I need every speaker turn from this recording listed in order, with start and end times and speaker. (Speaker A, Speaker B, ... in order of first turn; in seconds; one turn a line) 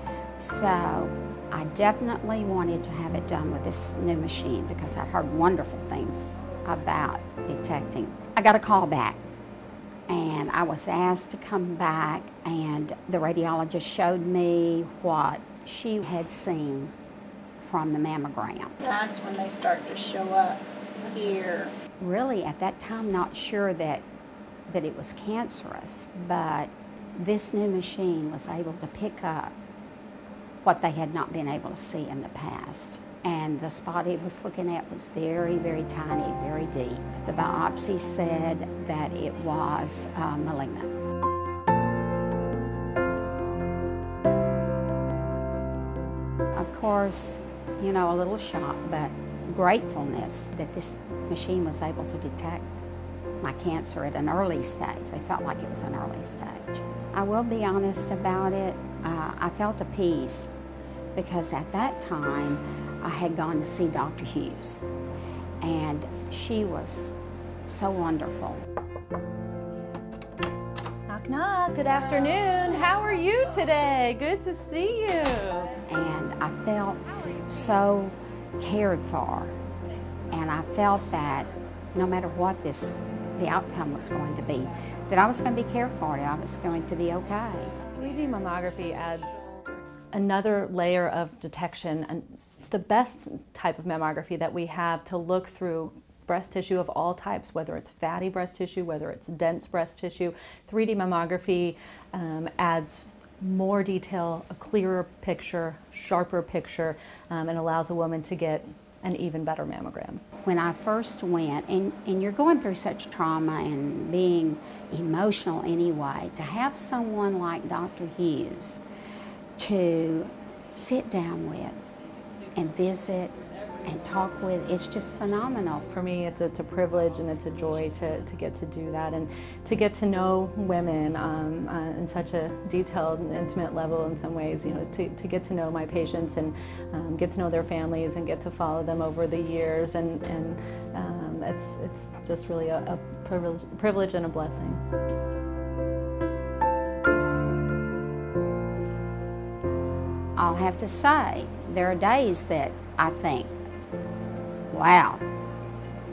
Speaker A: 0.4-9.2
Speaker A: 10.1-16.9
Speaker A: 17.6-18.8
Speaker B: 18.8-21.7
Speaker A: 22.0-24.0
Speaker A: 24.7-29.5
Speaker A: 30.6-40.9
Speaker A: 46.5-52.8
Speaker A: 53.4-60.5
Speaker A: 61.1-64.8
Speaker A: 65.6-67.1
Speaker A: 67.7-68.6
Speaker C: 71.1-75.8
Speaker A: 75.8-79.5
Speaker A: 80.3-87.7
Speaker C: 87.9-89.4
Speaker C: 90.1-110.2
Speaker A: 110.4-118.8
Speaker A: 119.6-121.8
Speaker A: 122.5-125.8
Speaker C: 125.9-144.8
Speaker A: 150.4-153.5
Speaker A: 154.7-155.2